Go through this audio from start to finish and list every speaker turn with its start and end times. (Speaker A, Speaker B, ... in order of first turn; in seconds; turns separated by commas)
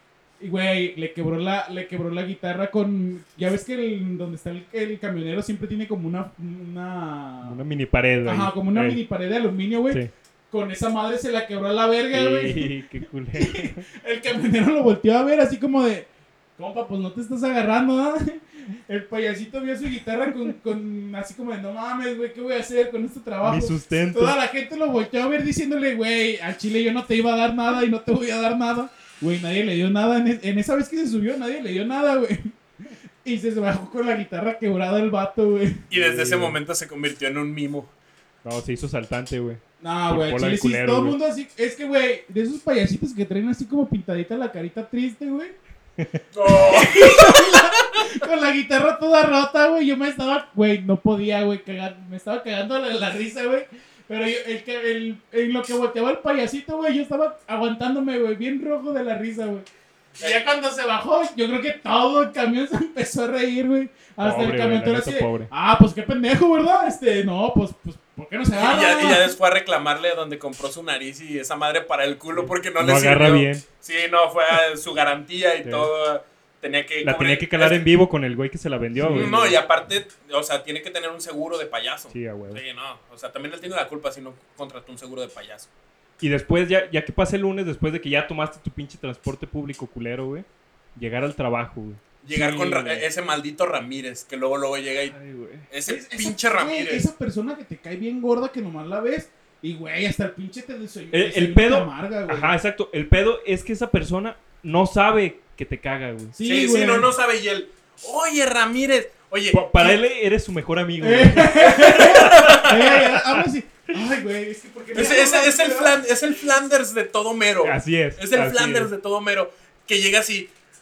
Speaker A: 0.4-7.6, Speaker B: 7.4-9.0, Speaker A: 8.2-12.7, Speaker B: 12.1-13.8, Speaker A: 13.3-32.5, Speaker B: 23.4-24.4, Speaker A: 33.2-35.9, Speaker C: 35.9-37.9, Speaker B: 35.9-36.6, Speaker B: 38.4-41.2, Speaker A: 39.8-45.5, Speaker C: 46.3-48.0, Speaker A: 46.5-59.6, Speaker A: 60.2-69.3, Speaker B: 64.2-65.5, Speaker C: 68.5-77.8, Speaker B: 72.3-73.7, Speaker B: 75.6-75.9, Speaker B: 77.0-79.6, Speaker A: 78.9-79.3, Speaker C: 79.0-85.7, Speaker B: 82.1-82.6, Speaker B: 86.2-92.0, Speaker C: 92.2-95.2, Speaker A: 92.3-93.0, Speaker B: 95.1-95.7, Speaker C: 95.7-97.0, Speaker A: 95.9-102.5, Speaker B: 101.1-106.3, Speaker A: 106.3-107.1, Speaker C: 106.4-110.0, Speaker B: 109.5-113.4, Speaker A: 111.0-115.9, Speaker C: 111.6-113.0, Speaker C: 114.9-120.5, Speaker B: 117.6-118.9